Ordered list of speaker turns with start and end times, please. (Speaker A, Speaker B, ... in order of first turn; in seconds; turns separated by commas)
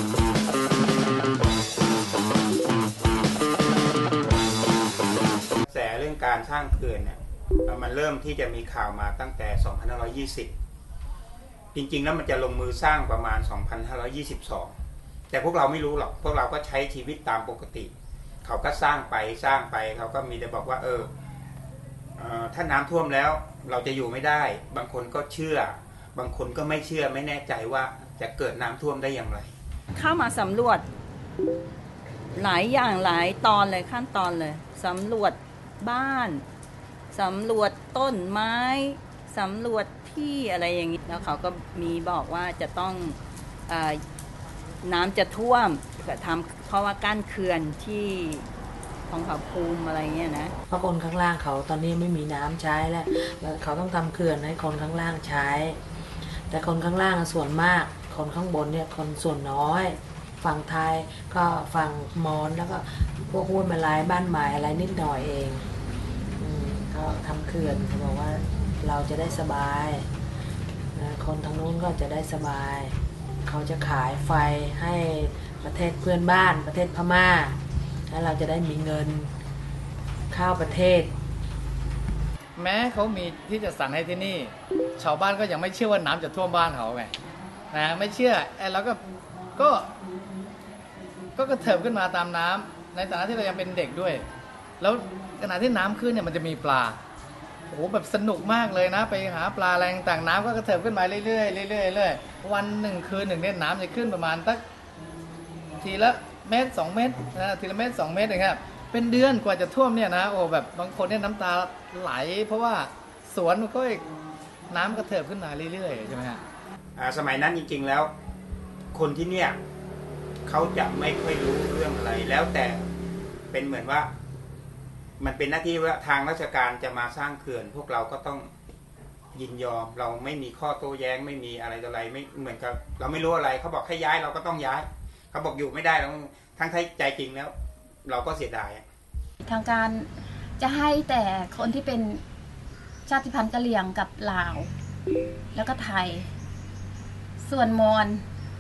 Speaker A: 5.7-10.5, Speaker A: 11.7-14.7, Speaker A: 15.3-17.9, Speaker A: 18.4-21.1, Speaker A: 22.2-29.5, Speaker B: 29.9-30.9, Speaker B: 32.4-36.4, Speaker B: 37.1-44.0, Speaker B: 44.8-48.5, Speaker B: 49.1-50.5, Speaker C: 50.7-55.8, Speaker C: 56.5-65.7, Speaker C: 66.4-70.1, Speaker C: 71.0-79.3, Speaker C: 80.3-81.1, Speaker D: 82.6-87.1, Speaker D: 87.7-89.0, Speaker D: 89.6-89.9, Speaker D: 91.4-94.3, Speaker D: 94.8-97.0, Speaker D: 97.7-104.6, Speaker D: 105.8-114.0, Speaker D: 114.7-116.4, Speaker A: 117.0-118.1, Speaker A: 118.9-119.6, Speaker A: 120.5-122.9, Speaker A: 123.5-124.1, Speaker A: 125.2-128.5, Speaker A: 129.3-137.5, Speaker A: 138.1-138.8, Speaker E: 139.4-140.1, Speaker E: 140.6-142.2, Speaker E: 143.1-144.7, Speaker E: 145.5-146.3, Speaker E: 147.4-148.2